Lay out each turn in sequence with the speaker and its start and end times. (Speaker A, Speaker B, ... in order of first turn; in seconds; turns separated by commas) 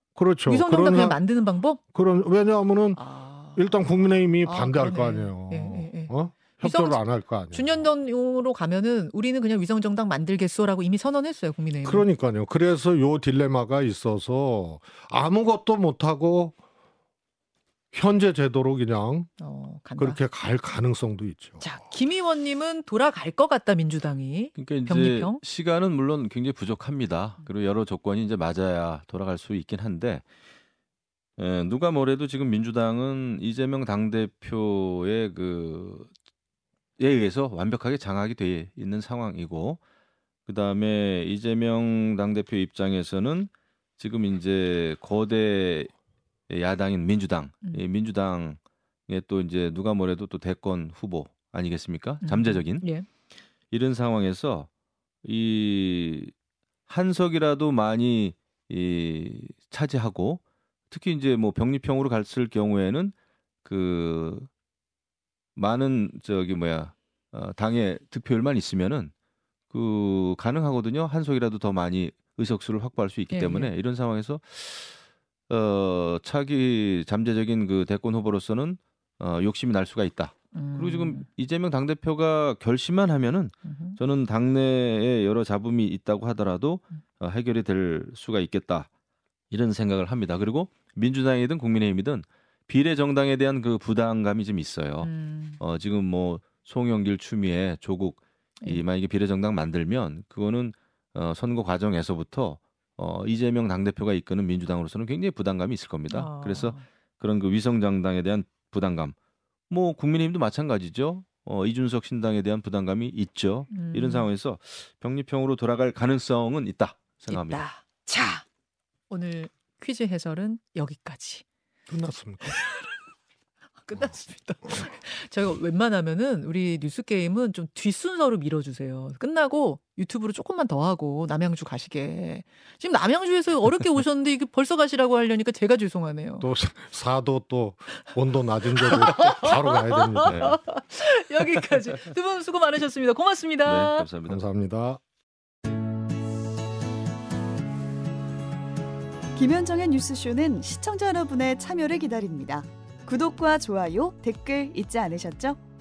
Speaker A: 0.1-1.2, Speaker B: 0.5-1.8, Speaker A: 1.9-3.0, Speaker B: 3.0-3.8, Speaker A: 3.5-7.8, Speaker B: 4.4-7.0, Speaker B: 7.5-12.1, Speaker A: 11.8-16.6, Speaker A: 17.9-19.3, Speaker B: 19.4-20.2, Speaker A: 20.0-21.8, Speaker B: 21.6-25.4, Speaker C: 24.6-30.2, Speaker C: 31.4-36.1, Speaker C: 37.0-39.8, Speaker C: 40.5-45.9, Speaker C: 46.5-52.9, Speaker B: 52.2-53.1, Speaker C: 53.7-54.7, Speaker C: 55.2-56.3, Speaker C: 56.9-63.1, Speaker C: 63.6-64.5, Speaker C: 65.6-69.1, Speaker C: 69.7-75.0, Speaker B: 73.3-73.7, Speaker C: 75.5-88.9, Speaker B: 80.5-81.3, Speaker B: 83.7-84.0, Speaker C: 89.5-109.2, Speaker B: 95.0-95.6, Speaker B: 106.1-106.8, Speaker C: 109.7-117.6, Speaker B: 113.7-114.3, Speaker B: 117.3-118.4, Speaker B: 119.1-121.5, Speaker A: 121.9-122.6, Speaker B: 122.5-122.9, Speaker B: 123.8-136.5, Speaker A: 136.4-140.4, Speaker B: 138.8-144.1, Speaker C: 140.2-140.6, Speaker C: 143.7-144.4, Speaker A: 144.3-145.0, Speaker D: 149.3-155.6